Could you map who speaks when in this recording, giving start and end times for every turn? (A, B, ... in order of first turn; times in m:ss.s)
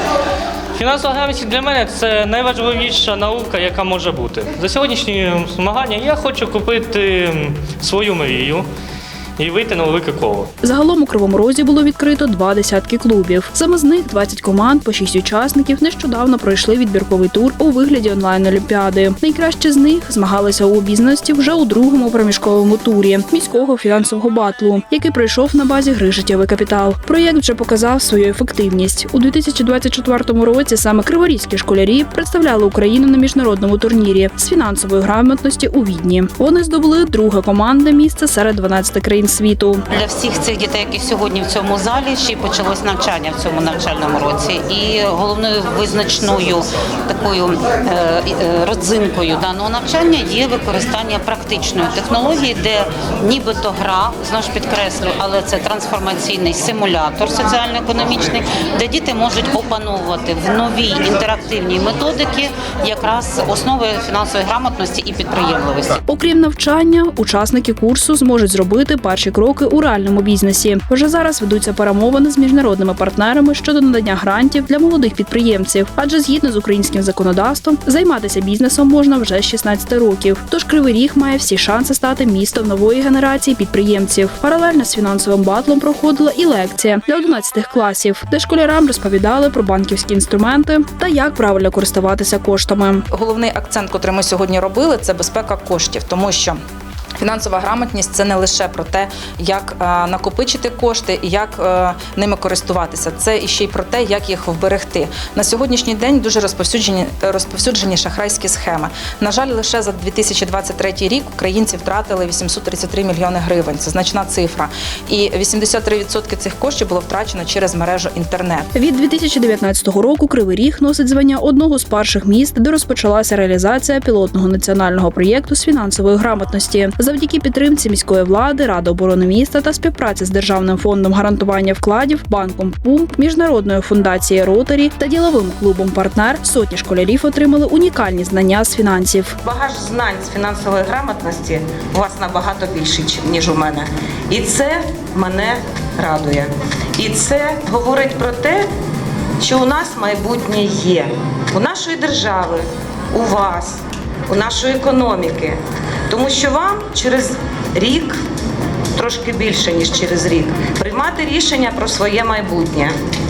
0:00.7-0:08.6 A
0:09.4-0:10.5 A
0:10.6-0:39.8 B
0:39.9-1:06.0 C
1:06.1-1:33.0 B
1:33.1-1:36.6 D
1:37.2-1:58.7 D
1:58.7-2:19.4 B
2:19.4-2:28.7 E
2:29.4-2:35.6 E
2:36.1-2:38.2 E
2:38.9-2:42.9 E